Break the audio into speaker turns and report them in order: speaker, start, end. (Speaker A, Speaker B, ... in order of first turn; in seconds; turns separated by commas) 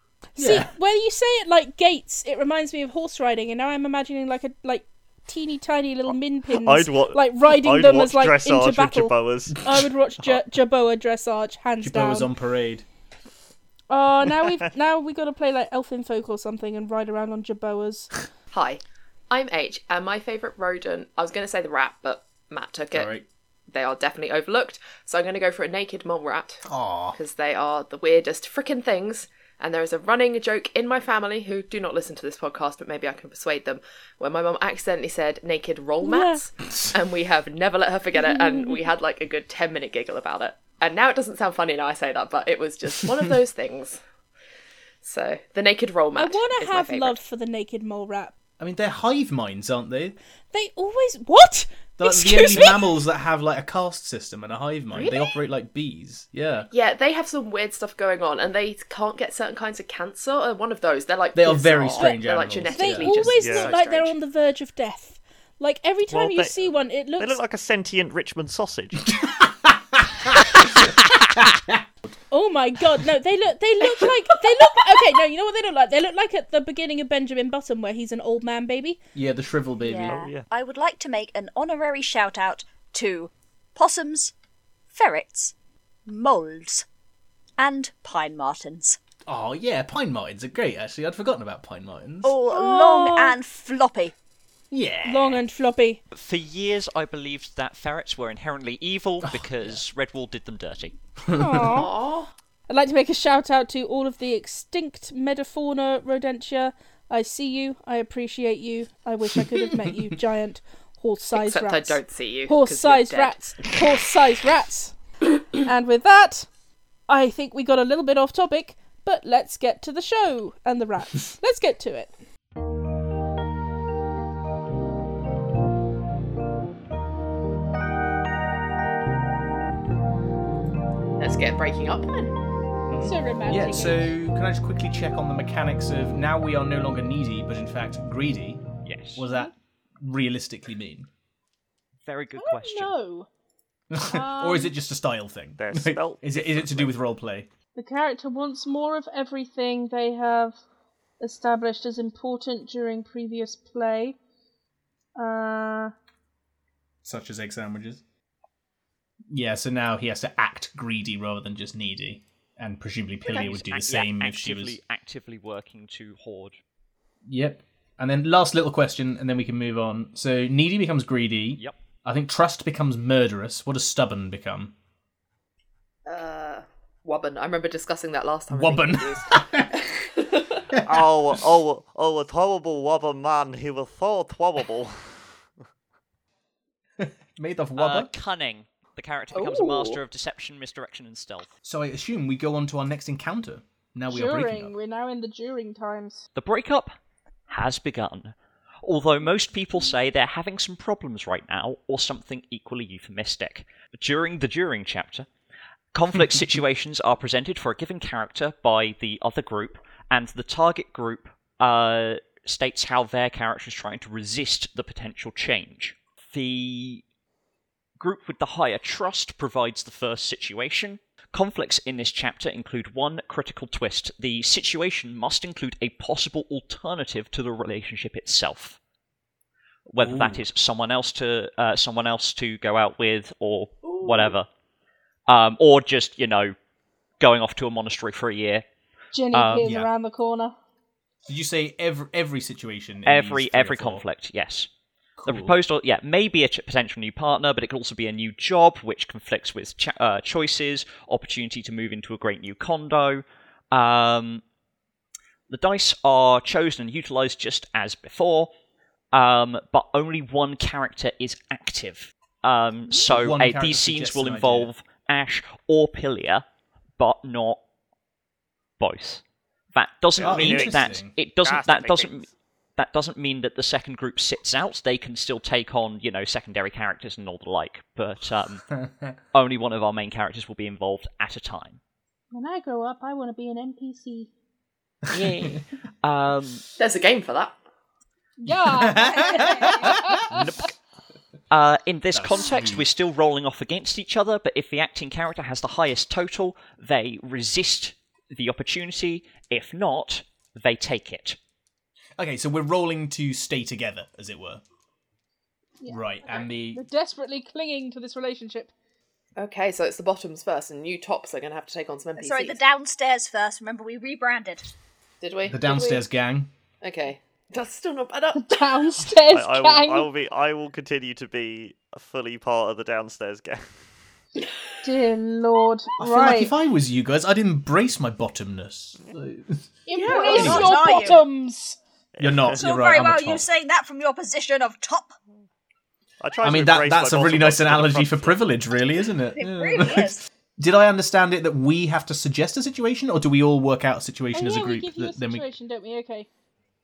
Speaker A: 0.3-12.3, Speaker B: 0.4-0.7, Speaker C: 6.5-10.4, Speaker B: 11.8-12.8, Speaker A: 13.9-18.1, Speaker D: 18.5-23.1, Speaker B: 22.9-23.3, Speaker D: 23.7-44.0, Speaker B: 26.6-27.2, Speaker A: 36.0-36.4, Speaker A: 38.1-38.9, Speaker D: 45.0-47.2, Speaker A: 46.1-48.3, Speaker B: 48.6-50.1, Speaker A: 50.5-53.0, Speaker B: 52.0-56.7, Speaker D: 54.9-55.3, Speaker D: 56.7-64.1, Speaker B: 61.3-63.8, Speaker A: 62.0-67.4, Speaker C: 63.4-63.7, Speaker C: 66.1-69.1, Speaker B: 69.0-72.1, Speaker A: 72.3-79.0, Speaker B: 79.1-80.2, Speaker E: 79.8-84.3, Speaker C: 80.0-80.5, Speaker E: 84.9-85.5, Speaker E: 86.1-86.8, Speaker E: 87.6-89.0, Speaker B: 89.3-92.4, Speaker E: 92.2-94.1, Speaker A: 92.5-93.3, Speaker B: 94.7-95.4, Speaker A: 95.0-96.0, Speaker F: 96.1-100.9, Speaker B: 99.2-99.8, Speaker B: 101.2-101.9, Speaker A: 101.3-101.9, Speaker D: 101.7-102.3, Speaker A: 102.7-114.9, Speaker D: 111.3-113.5, Speaker A: 115.5-116.5, Speaker A: 117.1-122.1, Speaker D: 131.2-132.3, Speaker B: 132.9-141.1, Speaker A: 133.0-134.2, Speaker F: 138.8-139.2, Speaker F: 142.0-142.9, Speaker A: 142.3-143.3, Speaker B: 143.9-147.5, Speaker A: 144.1-144.7, Speaker C: 145.6-146.9, Speaker A: 147.8-150.6, Speaker A: 151.2-154.2, Speaker A: 155.2-155.9, Speaker B: 157.0-158.0, Speaker B: 159.3-164.8, Speaker D: 163.3-163.5, Speaker F: 163.5-166.6, Speaker B: 167.2-174.7, Speaker D: 176.1-180.7, Speaker B: 178.5-180.1, Speaker B: 180.7-181.4, Speaker C: 180.8-185.3, Speaker B: 187.0-188.1, Speaker F: 187.8-191.5, Speaker D: 189.3-190.0, Speaker B: 191.6-194.7, Speaker A: 194.1-196.2, Speaker F: 196.3-196.9, Speaker F: 197.5-205.3, Speaker F: 205.9-217.0, Speaker F: 218.0-228.8, Speaker F: 229.9-234.5, Speaker B: 230.0-230.4, Speaker D: 233.8-234.3, Speaker F: 235.3-236.5, Speaker F: 237.2-238.6, Speaker A: 239.1-240.5, Speaker F: 239.3-239.7, Speaker B: 239.6-239.9, Speaker B: 241.3-244.0, Speaker F: 243.1-244.7, Speaker B: 245.2-245.5, Speaker F: 245.2-254.4, Speaker F: 255.5-258.5, Speaker F: 259.1-266.4, Speaker B: 262.9-264.7, Speaker F: 267.0-267.6, Speaker F: 268.8-269.2, Speaker F: 269.7-278.7, Speaker B: 270.2-271.1, Speaker C: 270.2-272.3, Speaker B: 278.8-279.1, Speaker F: 279.3-281.8, Speaker A: 282.3-284.3, Speaker F: 285.1-286.6, Speaker D: 286.8-287.6, Speaker A: 288.4-290.5, Speaker B: 288.5-290.5, Speaker E: 288.9-289.9, Speaker C: 290.2-290.7, Speaker F: 291.5-301.4, Speaker B: 292.1-292.9, Speaker B: 302.2-304.6, Speaker A: 305.8-308.7, Speaker B: 305.9-306.8, Speaker D: 309.4-312.6, Speaker E: 312.2-314.7, Speaker D: 315.2-316.1, Speaker B: 315.4-316.5, Speaker D: 316.8-318.8, Speaker A: 318.3-320.1, Speaker C: 319.3-323.6, Speaker A: 324.8-326.5, Speaker B: 326.0-329.7, Speaker A: 329.9-331.8, Speaker D: 329.9-331.1, Speaker E: 330.1-331.2, Speaker B: 330.3-330.8, Speaker C: 332.1-332.6, Speaker B: 332.2-333.5, Speaker E: 332.5-335.1, Speaker C: 336.2-338.4, Speaker B: 336.4-345.4, Speaker E: 339.3-340.2, Speaker A: 344.3-346.3